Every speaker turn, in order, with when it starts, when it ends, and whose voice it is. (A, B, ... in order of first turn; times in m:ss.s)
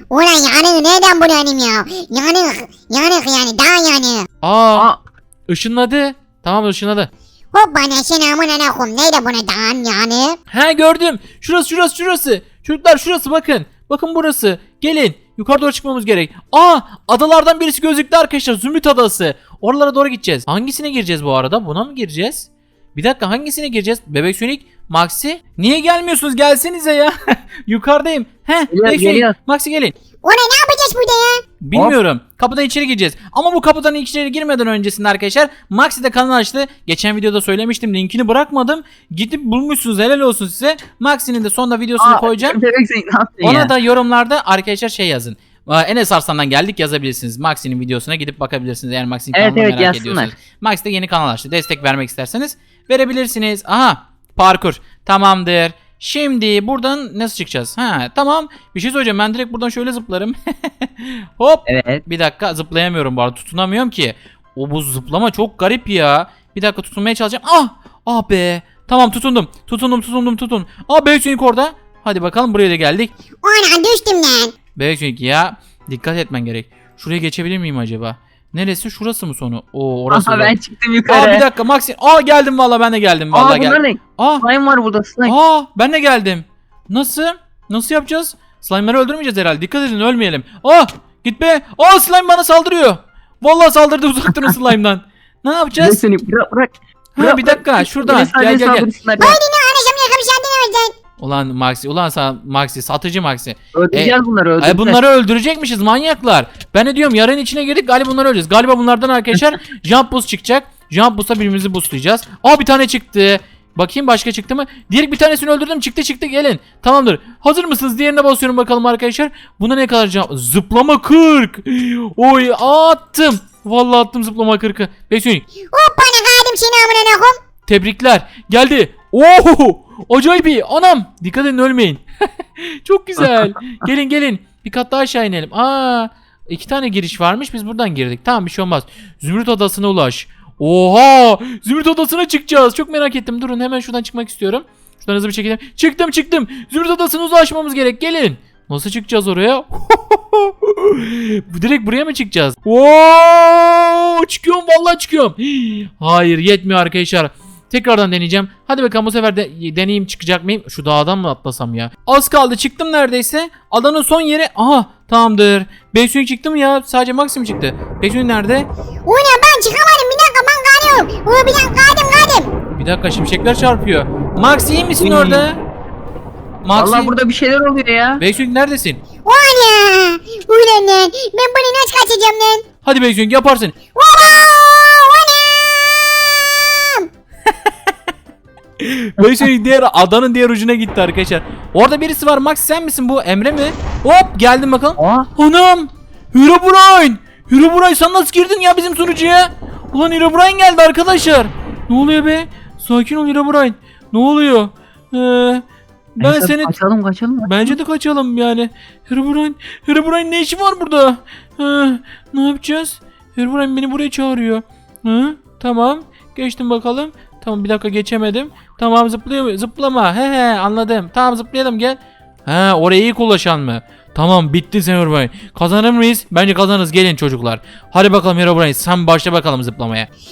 0:00.1-0:04.3 A
0:04.4-0:04.9 B
0:05.5-0:07.1 B
0:07.5-0:10.4 A
0:10.5-0:29.9 B
0:28.7-0:29.3 C
0:30.2-0:31.4 A
0:31.6-0:42.6 B
0:42.0-0:43.7 C
0:43.4-1:13.1 B
0:49.3-0:50.3 C
1:01.7-1:02.0 C
1:13.4-1:14.5 A
1:14.7-1:20.5 B
1:20.1-1:21.4 C
1:21.1-1:24.4 B
1:23.3-1:25.3 C
1:25.2-1:36.0 B
1:35.8-1:39.4 C
1:37.1-1:38.9 B
1:39.2-1:40.9 A
1:41.2-2:05.4 B
1:43.7-1:45.0 C
2:05.7-2:07.4 A
2:07.6-2:12.0 B
2:12.6-2:48.7 B
2:49.0-2:52.5 A
2:52.7-2:55.6 B
2:55.0-2:55.4 C
2:56.6-2:57.1 B
2:56.7-2:58.2 C
2:58.2-2:59.0 B
2:59.2-3:02.6 A
3:02.8-3:03.7 B
3:03.9-3:07.1 A
3:08.8-3:25.6 B
3:15.0-3:15.3 C
3:26.2-3:26.7 B
3:26.2-3:27.7 C
3:27.5-3:50.1 B